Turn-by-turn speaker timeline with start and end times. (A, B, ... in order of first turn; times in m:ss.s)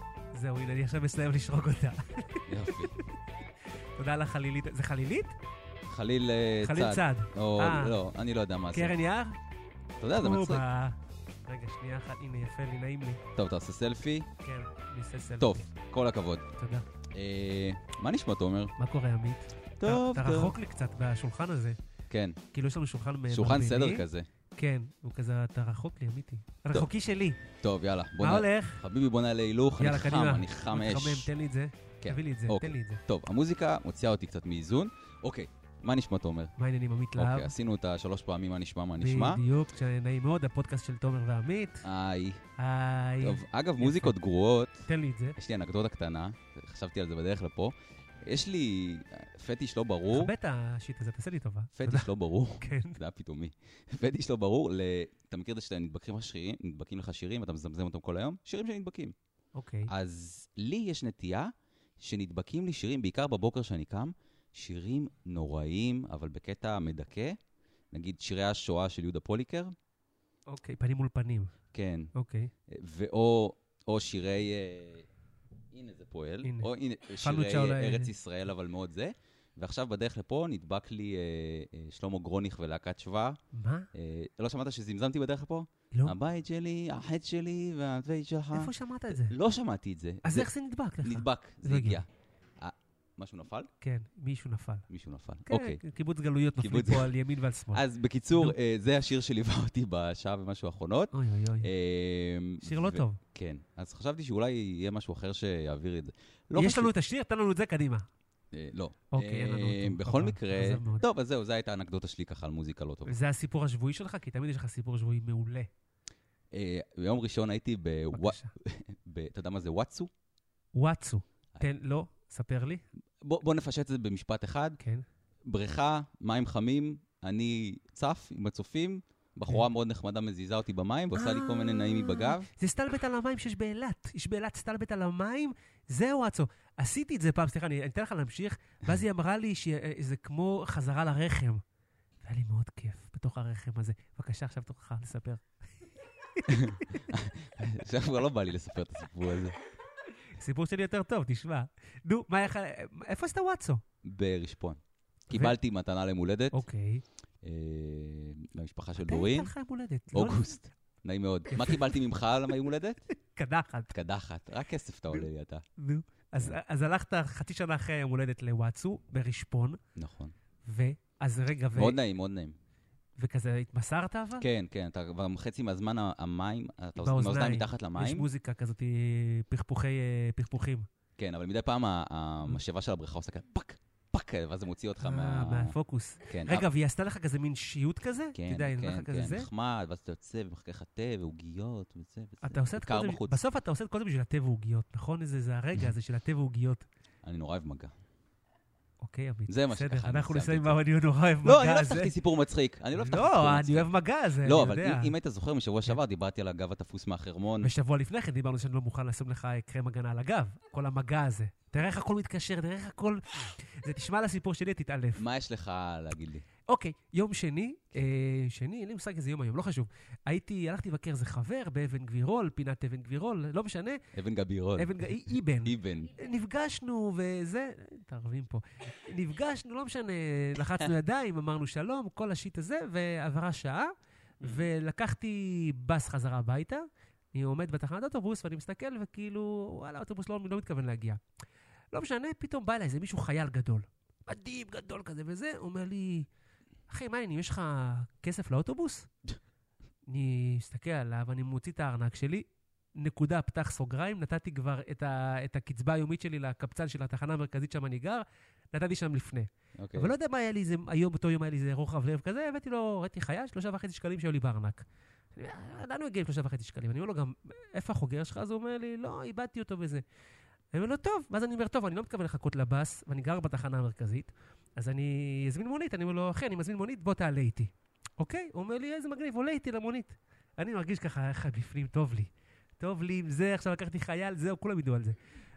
0:00.3-0:03.0 A
0:02.5-0:03.0 B
0:04.0-0:05.3 A
0:05.9-0:09.0 B
0:06.6-0:08.0 A
0:08.7-0:09.4 A
0:10.0-0:10.6 B
0:10.2-0:13.2 A
0:13.4-0:14.3 B
0:14.4-0:15.7 A
0:15.4-0:16.4 B
0:16.6-0:16.8 A
0:17.1-0:18.7 B
0:18.8-0:21.8 A
0:19.8-0:20.6 B
0:22.1-0:22.4 B
0:22.5-0:24.0 A
0:23.3-0:24.3 B
0:24.6-0:27.4 A
0:27.6-0:31.3 B
0:28.2-0:28.8 A
0:29.8-0:33.0 A
0:32.0-0:36.5 B
0:36.6-0:37.5 A
0:37.2-0:39.4 B
0:39.0-0:41.9 A
0:41.8-0:42.4 B
0:42.6-0:44.1 A
0:43.2-0:47.7 B
0:44.9-0:45.4 A
0:48.2-0:50.3 B
0:50.1-0:53.0 A
0:51.8-0:59.2 B
0:59.5-0:59.9 A
0:59.9-1:07.4 B
1:07.9-1:09.7 B
1:10.5-1:11.5 A
1:11.7-1:12.1 B
1:12.2-1:12.5 A
1:12.7-1:15.1 B
1:15.7-1:23.4 B
1:16.4-1:18.1 A
1:23.5-1:23.9 A
1:23.9-1:30.5 B
1:28.5-1:29.3 A
1:30.2-1:32.0 A
1:31.0-1:32.1 B
1:32.6-1:33.7 B
1:33.8-1:34.9 A
1:34.9-1:35.8 B
1:35.5-1:37.8 A
1:36.6-1:37.1 B
1:37.7-1:46.9 B
1:41.1-1:41.7 A
1:42.6-1:43.2 A
1:46.6-1:48.1 A
1:48.5-1:53.2 B
1:49.1-1:51.0 A
1:53.1-1:55.7 A
1:56.5-2:00.1 B
1:58.1-1:58.5 A
2:00.8-2:02.8 A
2:03.2-2:04.8 B
2:05.4-2:12.5 B
2:11.1-2:21.6 A
2:22.2-2:25.4 A
2:26.3-2:27.0 A
2:26.5-2:29.6 B
2:30.4-2:33.8 A
2:34.0-2:36.6 B
2:36.5-2:37.0 A
2:37.4-2:39.5 B
2:39.0-2:40.6 A
2:40.1-2:43.0 B
2:41.5-2:41.8 A
2:43.3-2:43.9 A
2:43.9-2:45.7 B
2:45.8-2:49.8 A
2:50.0-2:50.3 B
2:50.6-2:52.0 A
2:51.8-2:52.6 B
2:53.2-2:54.4 A
2:54.4-2:58.3 B
2:57.0-3:00.9 A
3:01.2-3:05.8 B
3:05.0-3:09.5 A
3:06.3-3:06.7 B
3:08.3-3:13.4 B
3:12.4-3:16.8 A
3:17.2-3:17.9 B
3:19.0-3:22.1 A
3:19.5-3:20.8 B
3:21.4-3:23.9 B
3:23.0-3:25.1 A
3:24.4-3:27.7 B
3:27.6-3:35.2 A
3:35.1-3:36.5 B
3:36.7-3:44.0 A
3:44.1-3:45.1 B
3:44.8-4:01.2 A
3:45.6-3:46.2 B
3:54.4-3:54.7 B
4:01.9-4:06.3 A
4:06.9-4:09.1 A
4:10.1-4:12.4 A
4:13.0-4:30.0 A
4:19.8-4:20.1 B
4:30.7-4:45.2 A